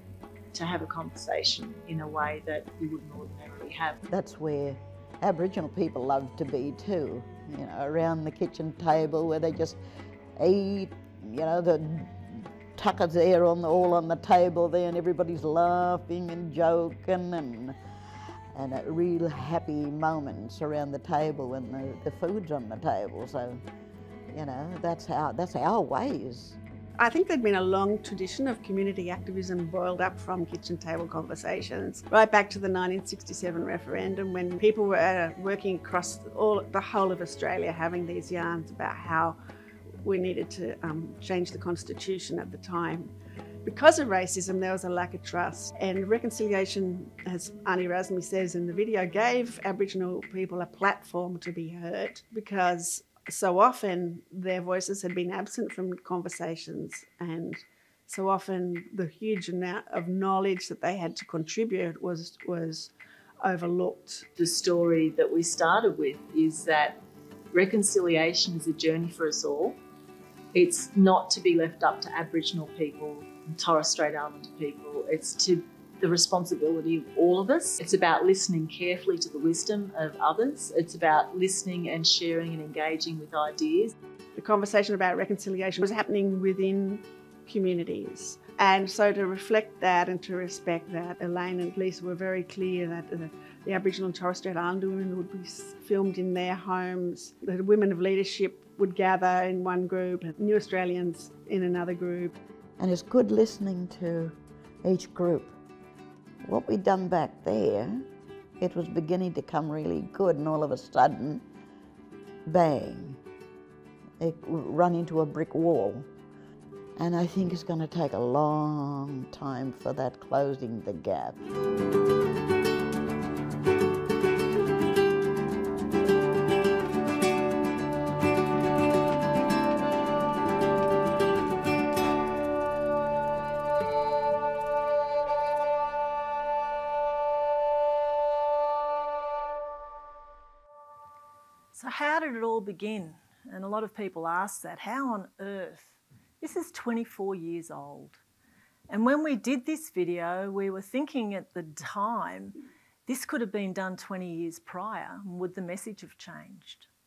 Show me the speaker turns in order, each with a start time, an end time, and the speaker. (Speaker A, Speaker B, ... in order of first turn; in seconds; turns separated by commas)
Speaker A: 0.5-4.0, Speaker B: 4.1-9.8, Speaker B: 10.4-17.8, Speaker B: 18.5-23.6, Speaker B: 24.3-26.6, Speaker C: 27.0-39.4, Speaker C: 40.0-43.1, Speaker C: 43.6-62.9, Speaker C: 63.4-64.3, Speaker A: 64.4-67.0, Speaker A: 67.5-69.8, Speaker A: 70.5-83.9, Speaker C: 84.3-102.4, Speaker B: 102.8-105.5, Speaker B: 106.4-108.0, Speaker B: 108.6-111.4, Speaker B: 112.4-113.2, Speaker B: 114.2-116.1, Speaker B: 117.0-121.4, Speaker A: 141.7-148.2, Speaker A: 148.9-152.6, Speaker A: 153.1-156.9